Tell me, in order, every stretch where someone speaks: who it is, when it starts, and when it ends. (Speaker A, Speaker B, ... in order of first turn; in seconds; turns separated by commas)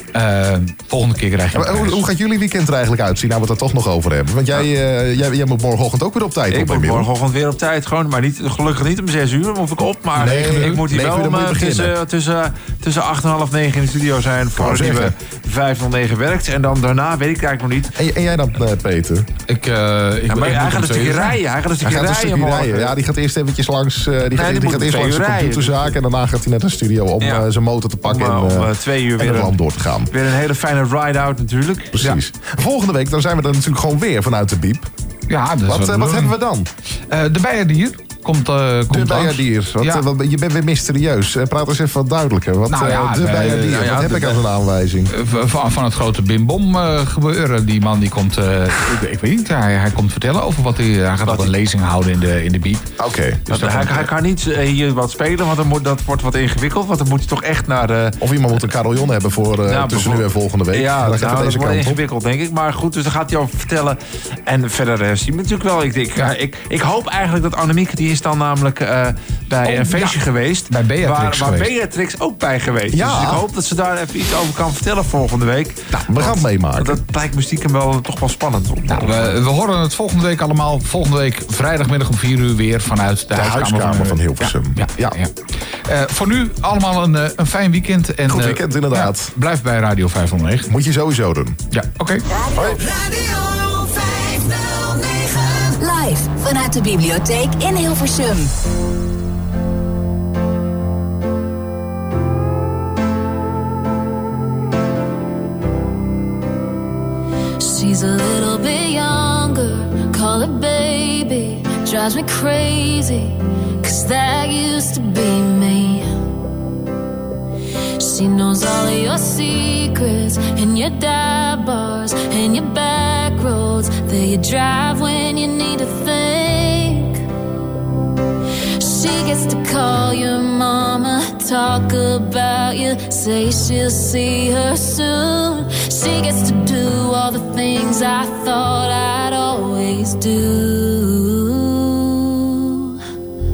Speaker A: 0.1-2.0, Speaker B: 1.5-7.1, Speaker C: 6.5-17.9, Speaker B: 10.2-11.9, Speaker A: 10.2-10.8, Speaker B: 14.6-15.1, Speaker B: 17.9-19.3, Speaker A: 19.5-21.4, Speaker C: 20.3-22.9, Speaker B: 21.8-30.1, Speaker C: 24.3-25.9, Speaker C: 27.2-27.5, Speaker C: 28.0-29.6, Speaker C: 30.1-32.1, Speaker B: 32.0-34.9, Speaker A: 35.3-36.3, Speaker B: 35.7-36.7, Speaker A: 37.1-40.0, Speaker B: 38.9-45.1, Speaker A: 42.7-43.8, Speaker C: 43.5-44.4, Speaker A: 45.1-52.9, Speaker C: 51.3-51.5, Speaker B: 53.0-53.4, Speaker C: 53.5-58.2, Speaker A: 53.5-54.1, Speaker B: 58.2-62.0, Speaker C: 59.7-79.3, Speaker A: 69.7-70.1, Speaker A: 70.7-71.7, Speaker B: 72.9-73.4, Speaker B: 76.1-77.0, Speaker A: 78.9-85.3, Speaker B: 83.3-85.2, Speaker A: 85.8-90.7, Speaker B: 88.3-89.3, Speaker B: 90.7-91.6, Speaker A: 91.7-92.2, Speaker D: 92.3-95.8, Speaker B: 92.5-92.8, Speaker E: 95.8-98.5, Speaker F: 107.6-116.1, Speaker F: 118.0-127.2, Speaker F: 128.8-142.9